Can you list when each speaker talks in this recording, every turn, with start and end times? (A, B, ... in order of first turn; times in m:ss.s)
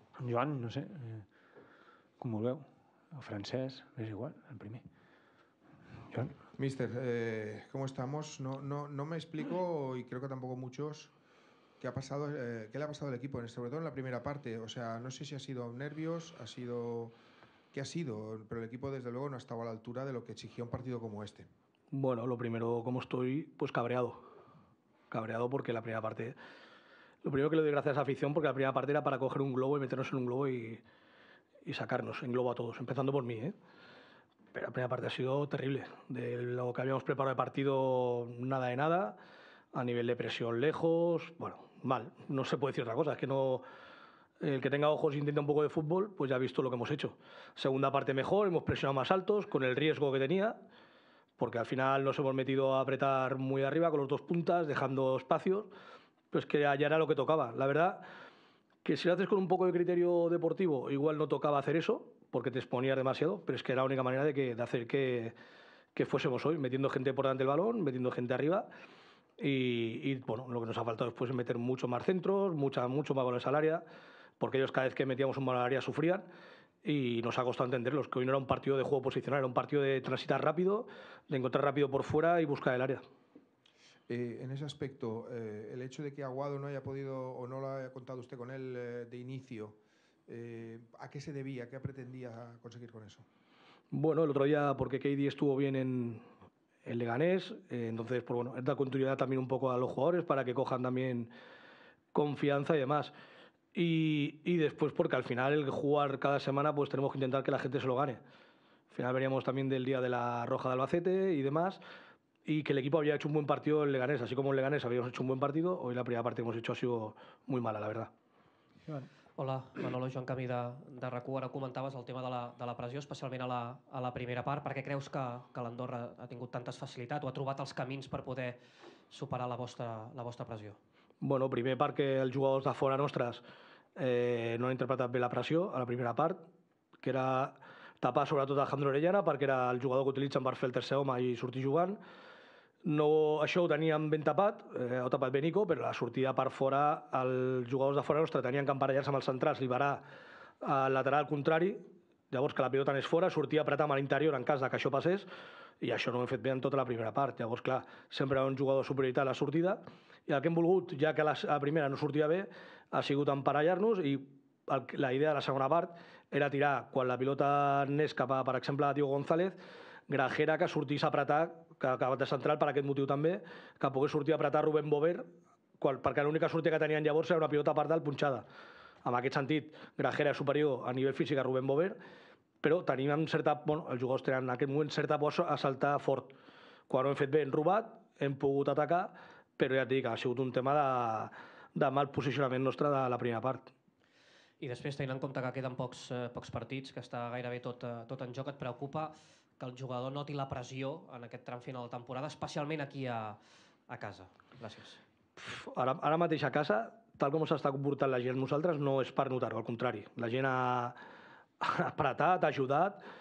0:00.2-0:01.2 A
0:02.2-0:04.8 A
0:06.5-0:11.1 B
0:11.8-0:17.1 B
0:17.7-0:21.5 B
0:21.9-0:24.3 C
0:25.1-0:26.4 C
0:27.2-0:30.8 C
0:31.6-0:33.5 C
0:34.5-0:39.2 C
0:39.7-0:43.6 C
0:44.4-0:50.6 C
0:51.4-0:55.7 C
0:56.3-0:58.0 C
0:58.8-1:05.4 C
1:06.0-1:08.7 C
1:09.4-1:13.8 C
1:14.4-1:16.3 C
1:16.8-1:23.0 C
1:24.1-1:33.2 B
1:33.9-1:36.2 C
1:36.8-1:41.3 C
1:42.1-1:43.1 C
1:43.7-1:48.2 C
1:48.9-1:51.8 C
1:52.4-1:58.1 C
1:59.4-2:08.6 D
2:09.1-2:10.8 D
2:11.2-2:13.4 C
2:14.0-2:16.4 C
2:17.0-2:22.0 C
2:22.8-2:30.0 C
2:30.6-2:35.3 C
2:35.8-2:49.6 C
2:50.1-2:55.3 C
2:55.8-2:58.4 C
2:59.0-3:02.0 C
3:02.6-3:06.3 C
3:06.9-3:13.7 C
3:14.6-3:25.0 D
3:25.4-3:31.0 C
3:31.6-3:33.0 C